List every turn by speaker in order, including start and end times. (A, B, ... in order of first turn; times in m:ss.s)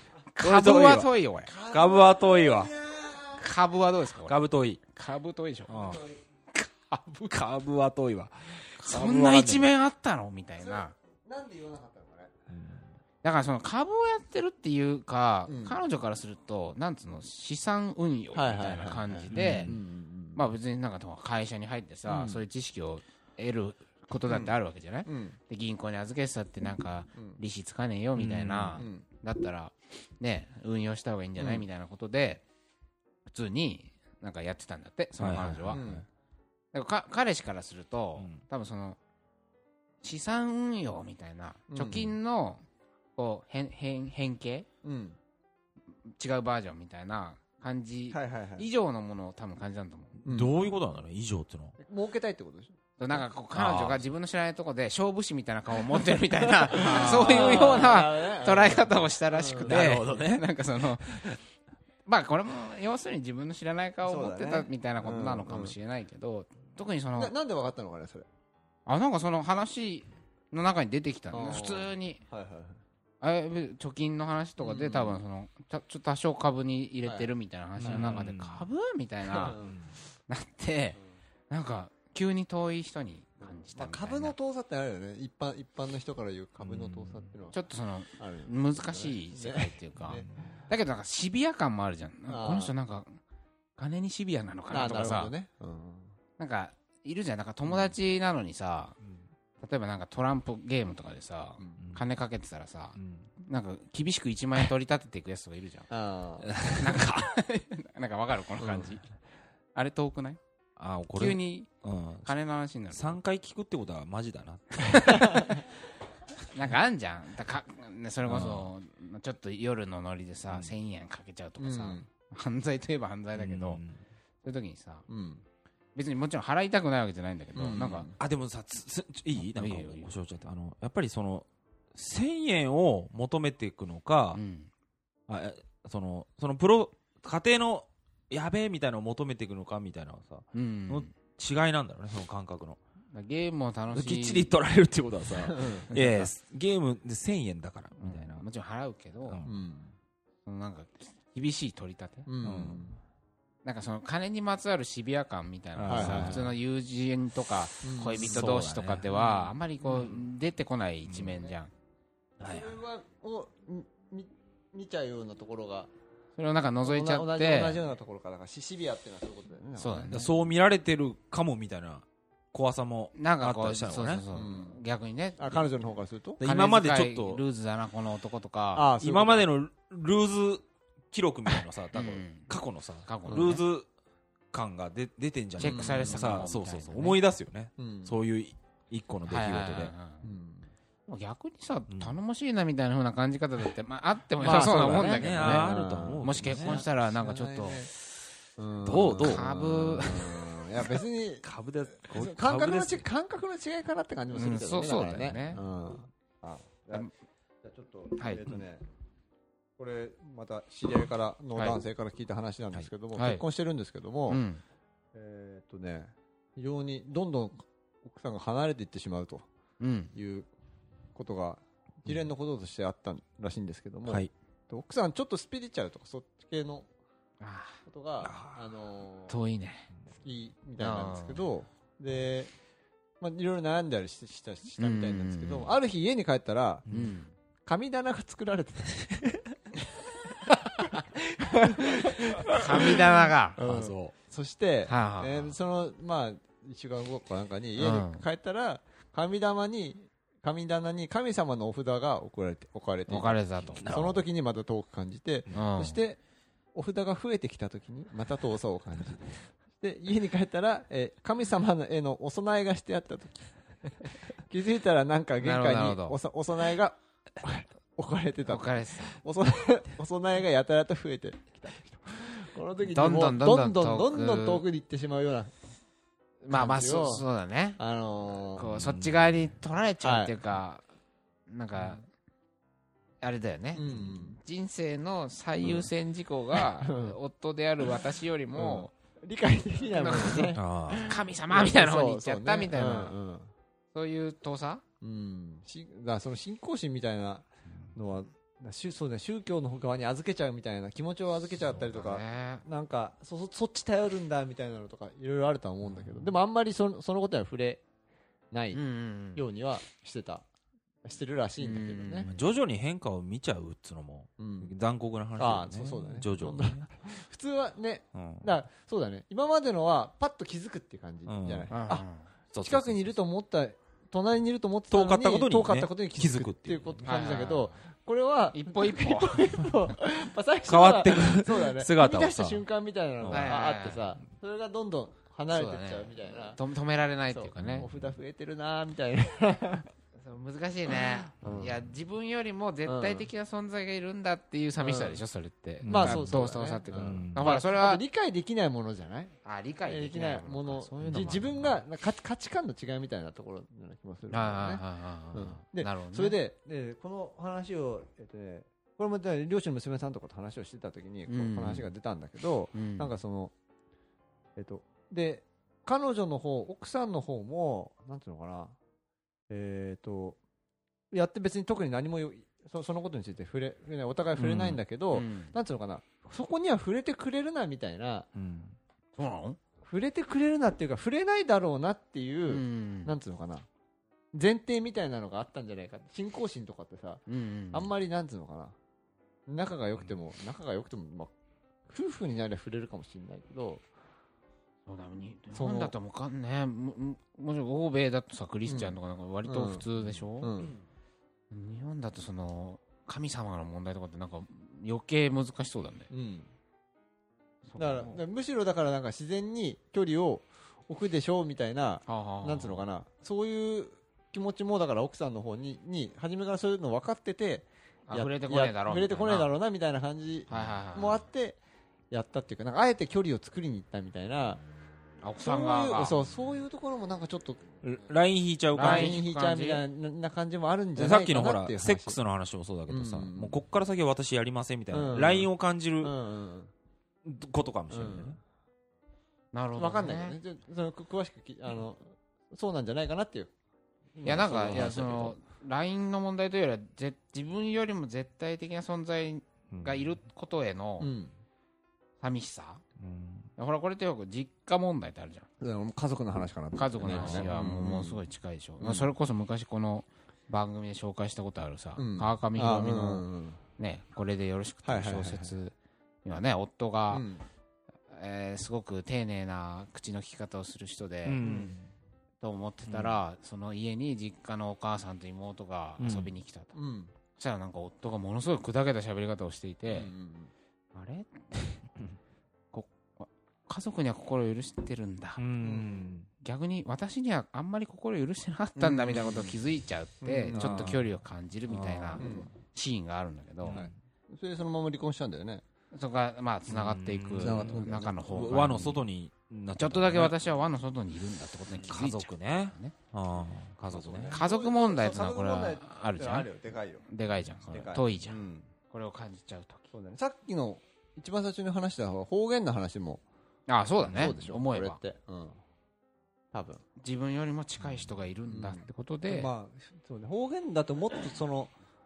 0:00.4-0:01.5 A
0:00.4-0:01.1 B
0:01.5-0:03.5 C
0:01.6-0:02.7 B
0:03.4-0:04.4 A
0:04.3-0:04.8 B
0:04.9-0:05.8 A
0:05.7-0:06.0 B
0:05.7-0:06.2 C
0:06.5-0:07.4 A
0:07.3-0:09.7 B
0:08.8-0:10.9 A
0:10.6-0:12.3 C
0:12.5-0:12.9 B
0:13.2-0:19.7 A
0:15.5-0:15.8 C
0:18.3-0:20.4 C
0:19.3-0:19.8 B
0:20.4-0:32.4 A
0:22.1-0:22.4 C
0:24.3-0:24.6 C
0:25.1-0:25.4 C
0:28.2-0:28.8 B
0:28.8-0:29.0 C
0:31.4-0:31.7 C
0:33.3-0:35.8 A
0:35.2-0:36.0 B
0:35.7-0:36.0 C
0:36.7-0:39.0 A
0:40.0-0:42.6 A
0:41.7-0:42.2 C
0:43.2-0:44.7 A
0:44.8-0:45.2 C
0:46.1-0:50.2 A
0:48.1-0:48.7 C
0:50.2-0:50.6 C
0:50.3-0:51.8 B
0:51.8-0:53.2 C
0:53.0-1:01.3 A
0:53.5-0:54.0 B
0:56.6-1:00.0 C
0:56.7-0:57.9 B
0:59.6-1:00.5 B
1:01.0-1:01.3 B
1:02.1-1:07.3 A
1:04.0-1:05.8 C
1:07.2-1:08.3 C
1:08.9-1:12.2 A
1:11.3-1:12.8 C
1:13.2-1:19.6 A
1:14.6-1:15.2 C
1:17.0-1:17.3 C
1:17.8-1:18.7 B
1:17.8-1:18.2 C
1:19.3-1:19.8 C
1:19.6-1:19.9 B
1:20.3-1:21.0 A
1:21.5-1:24.4 A
1:23.6-1:27.6 C
1:26.6-1:27.3 B
1:27.5-1:33.2 A
1:28.2-1:30.6 C
1:30.0-1:30.5 B
1:32.3-1:32.7 C
1:33.8-1:35.3 A
1:34.7-1:36.2 C
1:36.4-1:39.0 A
1:39.6-1:45.9 A
1:41.8-1:42.0 B
1:43.0-1:43.3 B
1:45.9-1:46.5 C
1:46.5-1:47.1 B
1:46.7-1:49.1 A
1:48.6-1:48.9 C
1:49.8-1:50.4 A
1:50.8-1:52.3 B
1:51.1-1:51.7 A
1:52.2-1:53.2 A
1:52.9-1:55.5 B
1:54.9-1:55.4 A
1:55.1-1:55.5 C
1:56.5-2:03.8 A
1:58.3-1:58.7 B
2:01.6-2:02.1 C
2:03.4-2:04.0 B
2:04.4-2:05.0 A
2:05.1-2:05.4 C
2:06.0-2:08.1 A
2:07.6-2:08.2 C
2:08.2-2:14.4 B
2:09.4-2:10.1 A
2:14.3-2:14.7 A
2:15.3-2:22.8 B
2:20.5-2:21.1 A
2:23.1-2:24.5 A
2:23.9-2:28.4 B
2:25.4-2:25.9 C
2:25.9-2:26.3 A
2:28.0-2:29.4 A
2:29.3-2:29.6 B
2:29.4-2:30.0 C
2:30.5-2:32.3 A
2:32.3-2:33.0 C
2:32.4-2:32.8 B
2:33.6-2:41.7 A
2:35.8-2:36.6 B
2:35.9-2:36.4 C
2:37.8-2:38.4 C
2:38.2-2:40.2 B
2:41.1-2:41.4 B
2:42.4-2:42.8 B
2:42.4-2:45.9 C
2:46.4-2:47.8 A
2:46.8-2:50.2 C
2:49.8-2:50.3 A
2:50.1-2:54.2 B
2:53.2-2:55.6 A
2:54.3-2:54.8 C
2:55.4-2:56.4 C
2:56.4-2:57.4 B
2:56.4-2:58.9 A
2:58.7-2:59.5 C
2:59.0-3:03.9 B
3:01.9-3:02.5 A
3:03.1-3:03.6 A
3:03.3-3:03.6 C
3:04.5-3:09.9 B
3:05.6-3:07.2 A
3:05.6-3:06.2 C
3:07.8-3:08.2 C
3:09.3-3:10.3 A
3:10.2-3:10.7 C
3:11.1-3:17.9 A
3:11.9-3:12.2 B
3:14.4-3:16.8 B
3:14.4-3:17.9 C
3:18.6-3:21.5 C
3:18.8-3:20.2 B
3:19.2-3:20.5 A
3:21.4-3:23.1 B
3:22.0-3:27.1 C
3:24.3-3:25.6 A
3:27.6-3:28.8 C
3:28.2-3:28.6 A
3:29.8-3:34.4 C
3:33.2-3:33.4 A
3:34.3-3:34.6 A
3:35.1-3:39.5 C
3:39.8-3:40.1 A
3:40.2-3:40.5 C
3:41.2-3:46.9 C
3:44.1-3:44.3 B
3:47.4-3:47.8 A
3:47.9-3:49.4 C
3:48.2-3:48.7 B
3:49.3-3:49.9 A
3:50.1-3:52.5 C
3:50.8-3:51.4 A
3:53.2-3:56.9 C
3:54.8-3:55.7 A
3:56.9-3:57.1 B
3:56.9-3:57.3 A
3:57.7-3:59.4 C
4:00.9-4:16.2 C
4:02.5-4:03.6 A
4:03.6-4:04.2 B
4:04.9-4:05.6 A
4:07.8-4:08.2 A
4:13.1-4:13.9 A
4:13.8-4:14.2 B
4:15.5-4:16.0 A
4:16.7-4:35.5 C
4:25.4-4:26.2 A
4:28.5-4:29.2 A
4:32.9-4:34.6 A
4:36.4-4:37.8 A
4:36.5-4:37.2 C
4:37.8-4:38.7 C
4:38.6-4:40.8 A
4:38.7-4:39.3 B
4:40.0-4:40.4 C
4:41.5-4:42.0 A
4:43.2-4:43.8 A
4:43.8-4:44.4 C
4:44.4-4:48.9 A
4:45.6-4:45.9 C
4:46.6-4:47.2 C
4:48.6-4:53.5 C
4:50.0-4:53.2 A
4:50.6-4:51.1 B
4:53.9-4:54.8 A
4:55.0-5:07.8 C
5:01.8-5:02.6 A
5:08.5-5:08.8 C
5:08.7-5:09.4 A
5:09.3-5:10.4 C
5:11.0-5:12.3 C
5:11.6-5:12.3 A
5:12.3-5:16.9 B
5:14.4-5:14.7 C
5:15.4-5:22.0 C
5:18.2-5:18.5 B
5:21.3-5:21.7 B
5:21.7-5:22.3 A
5:22.5-5:23.2 B
5:22.6-5:36.6 C
5:24.9-5:27.4 B
5:27.0-5:27.8 A
5:28.5-5:29.9 A
5:30.7-5:32.6 B
5:33.2-5:33.5 B
5:33.3-5:34.1 A
5:35.5-5:37.9 A
5:37.3-5:39.9 C
5:37.6-5:37.9 B
5:40.2-5:48.0 A
5:41.4-5:41.7 C
5:41.4-5:41.7 B
5:42.9-5:43.3 C
5:44.8-5:45.2 C
5:45.8-5:46.4 B
5:45.9-6:03.5 C
5:47.0-5:47.5 B
5:49.4-5:51.8 A
5:54.3-5:56.4 A
6:01.3-6:01.9 A
6:02.7-6:03.1 A
6:04.6-6:08.8 C
6:09.5-6:10.4 C
6:11.1-6:18.3 C
6:14.4-6:14.8 B
6:15.1-6:15.6 A
6:18.4-6:18.8 B
6:19.2-6:19.6 A
6:19.8-6:23.7 C
6:22.5-6:23.1 A
6:24.3-6:28.8 C
6:27.3-6:27.9 A
6:29.5-6:31.3 C
6:31.9-6:33.8 C
6:34.9-6:40.5 A
6:35.5-6:35.9 C
6:38.7-6:39.8 C
6:40.4-6:40.7 C
6:41.5-6:46.1 A
6:46.1-6:46.5 C
6:47.7-6:48.2 A
6:47.8-7:01.6 C
6:52.1-6:52.8 A
6:58.1-6:59.5 A
7:00.5-7:01.2 A
7:02.1-7:04.6 C
7:05.2-7:06.2 A
7:05.4-7:08.0 C
7:07.8-7:09.2 B
7:08.8-7:09.8 A
7:08.8-7:12.2 C
7:11.0-7:16.2 B
7:12.9-7:13.6 C
7:14.9-7:15.5 C
7:16.0-7:16.7 C
7:17.2-7:18.4 B
7:17.9-7:18.4 C
7:19.5-7:20.4 A
7:19.8-7:23.5 C
7:24.2-7:25.4 C
7:24.2-7:31.1 A
7:24.4-7:25.3 B
7:29.7-7:30.0 B
7:31.0-7:31.3 C
7:32.2-7:32.8 A
7:33.0-7:33.5 B
7:33.6-7:35.5 A
7:35.6-7:38.2 C
7:36.8-7:43.2 A
7:38.8-7:39.1 C
7:42.0-7:43.6 C
7:43.8-7:47.2 A
7:44.8-7:45.6 C
7:47.1-7:47.4 C
7:48.1-7:51.4 A
7:51.2-7:51.9 B
7:51.4-7:51.7 C
7:52.4-7:56.7 A
7:52.9-7:53.2 B
7:56.0-7:56.3 B
7:56.7-7:57.1 C
7:57.4-8:00.1 A
7:59.9-8:00.5 C
8:00.9-8:01.8 A
8:02.7-8:05.4 A
8:05.4-8:06.3 B
8:05.6-8:06.0 C
8:06.4-8:13.8 A
8:08.8-8:09.6 C
8:10.2-8:10.9 C
8:10.5-8:11.1 B
8:11.7-8:12.4 B
8:12.2-8:12.5 C
8:13.6-8:13.9 B
8:13.7-8:15.6 C
8:15.9-8:19.0 A
8:16.7-8:20.4 B
8:17.4-8:18.5 C
8:19.8-8:22.9 A
8:21.9-8:24.4 B
8:23.9-8:27.0 C
8:24.3-8:26.5 A
8:27.1-8:29.9 A
8:27.7-8:28.7 C
8:29.9-8:33.2 C
8:33.7-8:35.0 A
8:34.0-8:34.3 B
8:34.1-8:35.6 C
8:36.5-8:36.8 C
8:37.0-8:39.5 A
8:37.8-8:38.1 B
8:38.5-8:41.7 C